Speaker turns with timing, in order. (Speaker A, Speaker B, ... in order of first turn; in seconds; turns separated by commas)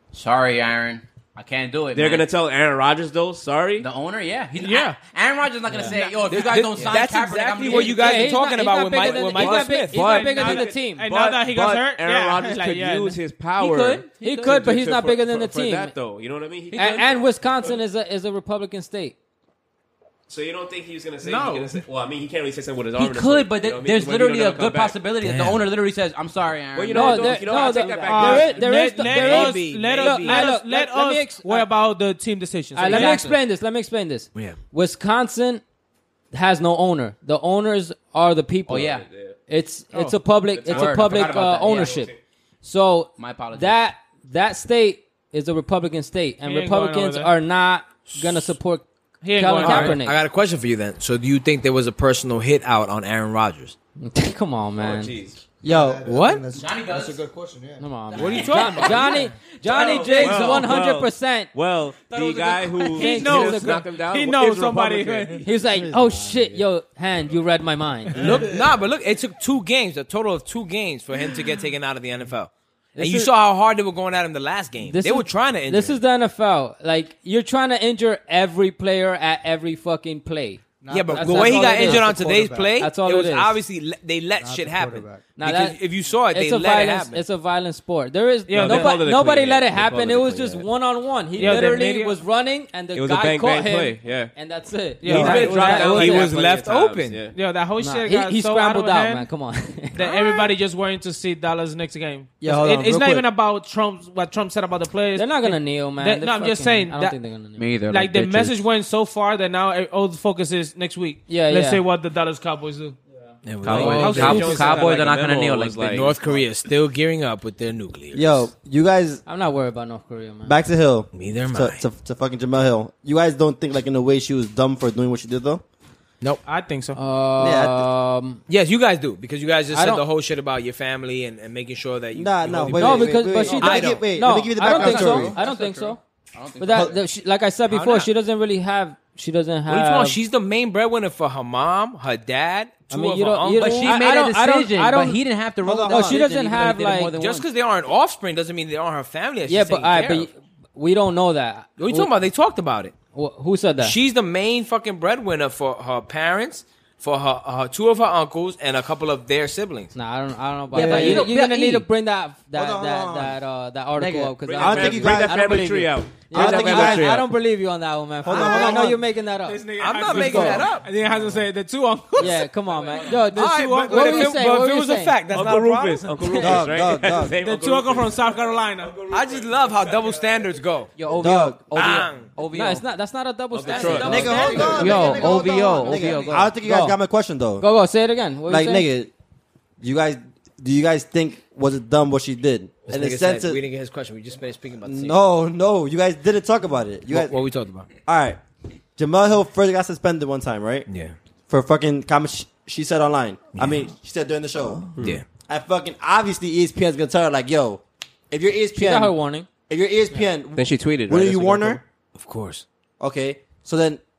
Speaker A: 0.1-2.3, Speaker B: 1.9-3.9, Speaker A: 3.8-8.3, Speaker C: 4.6-5.0, Speaker D: 5.7-6.0, Speaker C: 6.0-6.5, Speaker E: 6.0-10.5, Speaker D: 7.7-11.1, Speaker C: 9.1-13.2, Speaker B: 10.3-17.8, Speaker A: 13.6-14.3, Speaker D: 14.2-15.9, Speaker A: 16.7-17.0, Speaker D: 16.7-19.1, Speaker B: 20.3-25.1, Speaker C: 21.2-21.8, Speaker A: 23.0-28.4, Speaker E: 25.2-25.7, Speaker B: 26.8-28.6, Speaker D: 26.9-31.7, Speaker C: 28.0-33.4, Speaker E: 28.8-30.4, Speaker D: 32.8-35.6, Speaker A: 32.8-33.3, Speaker D: 36.3-38.9, Speaker A: 38.7-39.1, Speaker B: 38.8-39.4, Speaker D: 39.5-42.1, Speaker C: 39.9-40.2, Speaker B: 40.5-42.2, Speaker A: 40.7-42.0, Speaker D: 42.6-50.2, Speaker A: 43.2-43.8, Speaker C: 46.5-47.3, Speaker E: 48.2-48.5, Speaker C: 49.2-50.0, Speaker E: 49.6-53.8, Speaker D: 54.0-55.1, Speaker B: 54.8-55.4, Speaker F: 55.6-58.4, Speaker G: 55.6-56.0, Speaker E: 56.1-56.4, Speaker A: 56.5-57.2, Speaker D: 57.8-61.5, Speaker A: 58.1-60.4, Speaker C: 58.2-59.3, Speaker B: 59.6-65.4, Speaker E: 60.3-60.5, Speaker A: 62.1-62.9, Speaker C: 62.9-65.4, Speaker D: 62.9-63.8, Speaker D: 65.4-68.4, Speaker G: 65.6-66.6, Speaker E: 68.2-76.0, Speaker D: 73.0-73.3, Speaker D: 74.8-82.1, Speaker F: 80.8-82.8, Speaker E: 80.9-87.2, Speaker D: 82.8-83.6, Speaker F: 84.3-85.4, Speaker D: 85.4-96.3, Speaker C: 88.5-89.0, Speaker B: 88.5-90.7, Speaker B: 91.4-91.8, Speaker C: 91.4-92.2, Speaker B: 92.9-94.3, Speaker C: 95.0-96.0, Speaker G: 95.1-95.4, Speaker E: 95.1-97.3, Speaker B: 95.2-97.3, Speaker C: 97.3-99.3, Speaker D: 97.8-100.1, Speaker C: 100.0-107.2, Speaker G: 102.4-103.3, Speaker D: 105.2-107.6, Speaker A: 107.6-108.6, Speaker C: 107.9-113.0, Speaker D: 111.3-111.8, Speaker E: 113.5-114.7, Speaker B: 113.6-116.2, Speaker A: 113.7-116.1, Speaker C: 113.7-115.0, Speaker E: 115.9-118.5, Speaker G: 118.1-119.2, Speaker D: 119.3-120.5, Speaker G: 120.5-125.6, Speaker E: 121.1-121.8, Speaker C: 126.5-127.0, Speaker D: 127.0-128.4, Speaker G: 127.4-127.9, Speaker E: 128.5-134.1, Speaker D: 129.7-130.0, Speaker G: 132.1-135.4, Speaker D: 132.8-136.0, Speaker A: 134.6-137.0, Speaker D: 136.6-140.2, Speaker E: 137.7-138.1, Speaker E: 139.7-144.0, Speaker D: 142.9-145.2, Speaker A: 143.6-147.5, Speaker G: 145.6-146.2, Speaker D: 145.9-147.1, Speaker E: 147.1-150.3, Speaker D: 149.5-152.1, Speaker E: 151.8-152.9, Speaker D: 153.1-153.9, Speaker E: 153.8-159.9, Speaker D: 159.9-170.7, Speaker G: 160.7-161.3, Speaker A: 160.7-161.8, Speaker G: 162.6-163.4, Speaker G: 164.0-167.2, Speaker B: 164.4-167.2, Speaker E: 166.4-167.0, Speaker G: 168.2-169.0, Speaker C: 169.5-172.5, Speaker E: 169.8-170.9, Speaker D: 172.2-175.2, Speaker B: 172.7-173.2, Speaker C: 173.0-174.3, Speaker E: 173.1-176.6, Speaker B: 175.3-180.5, Speaker G: 176.4-177.3, Speaker C: 177.3-179.0, Speaker E: 179.1-180.9, Speaker A: 181.0-182.8, Speaker G: 181.2-182.0, Speaker E: 181.7-182.3, Speaker D: 182.5-185.8, Speaker B: 183.5-184.9, Speaker E: 183.7-184.1, Speaker F: 183.9-186.4, Speaker G: 184.0-187.7, Speaker A: 184.3-186.5, Speaker D: 186.6-187.0, Speaker D: 187.6-188.9, Speaker G: 188.5-189.1, Speaker G: 189.8-193.6, Speaker E: 192.9-195.3, Speaker G: 194.8-197.3, Speaker E: 197.1-197.9, Speaker G: 198.1-198.4, Speaker G: 199.0-200.9, Speaker E: 200.9-201.2, Speaker G: 201.5-211.8, Speaker E: 203.6-203.9, Speaker E: 205.0-205.2, Speaker D: 208.8-209.5, Speaker B: 210.6-211.8, Speaker E: 212.2-212.7, Speaker G: 213.0-214.0